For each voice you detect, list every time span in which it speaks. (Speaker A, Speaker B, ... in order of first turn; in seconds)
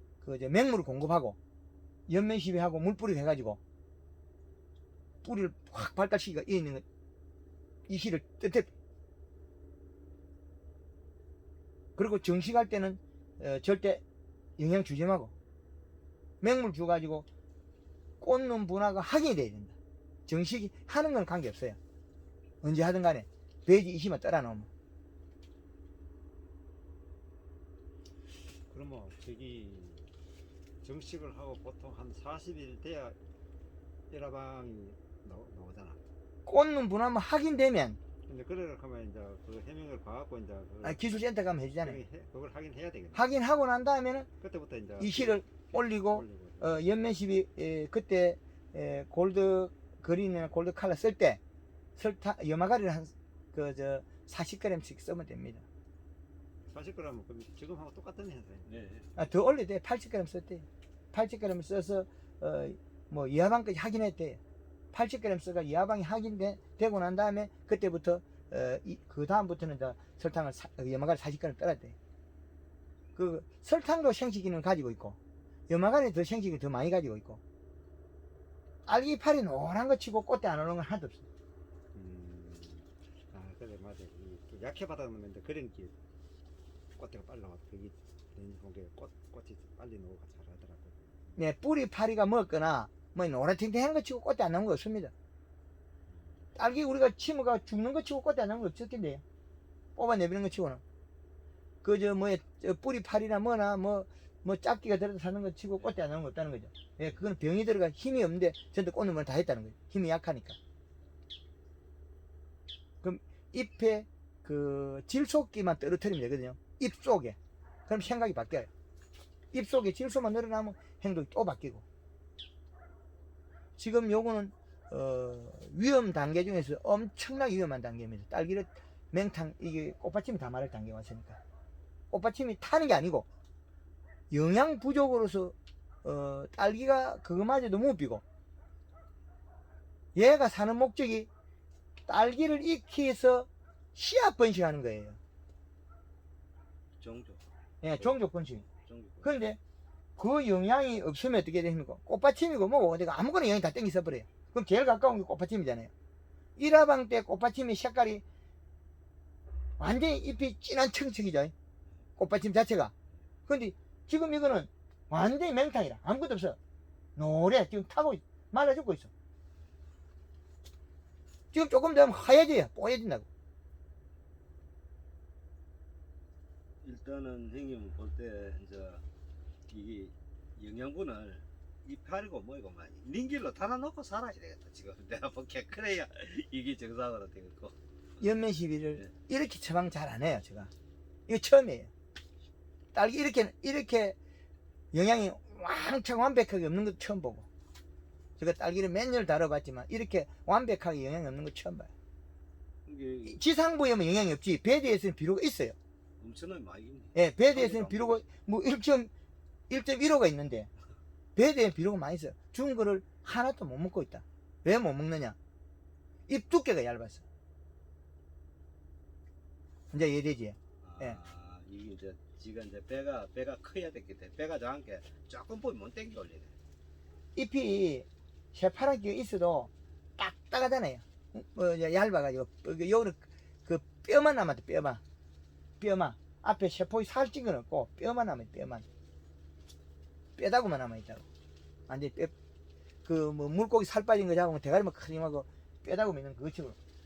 Speaker A: 0.2-1.4, 2.1-3.6, 5.2-6.8, 7.9-8.7, 12.0-14.0, 14.6-15.3, 16.4-17.3, 18.2-19.8, 20.3-21.8, 22.6-24.7, 36.5-38.0, 40.8-42.0, 43.1-44.3, 45.0-51.4, 52.0-55.6, 59.2-64.4, 64.9-72.0, 73.2-75.2, 75.7-77.4, 78.9-81.2, 91.4-95.1, 96.6-99.2, 100.0-100.8, 101.8-110.6, 113.0-117.4, 117.9-118.7, 119.5-121.8, 123.8-131.4, 132.1-133.3, 134.3-138.2, 140.2-141.3, 142.1-145.2, 147.8-148.6, 149.2-149.6, 150.2-155.9, 156.6-158.2, 159.8-161.5, 162.2-162.9, 163.5-166.6, 167.2-169.1, 171.5-173.3, 188.2-190.7, 191.3-191.9, 192.9-194.2, 194.9-197.5, 198.4-201.9, 203.3-205.8, 207.2-209.1, 209.7-210.7, 211.4-215.4, 216.3-217.2, 219.9-221.2, 227.4-235.0, 235.8-238.8, 240.4-241.2, 241.9-242.3, 243.1-246.8
Speaker B: 28.7-30.1, 30.8-33.2, 34.1-36.0, 38.3-41.2, 41.8-43.2, 44.4-46.9, 56.7-58.9, 81.9-85.9, 87.0-91.4, 96.1-96.5
Speaker C: 58.7-59.1, 147.0-147.5, 148.0-149.3, 176.8-179.0, 179.7-187.8, 202.9-203.4, 206.2-208.2, 220.8-226.5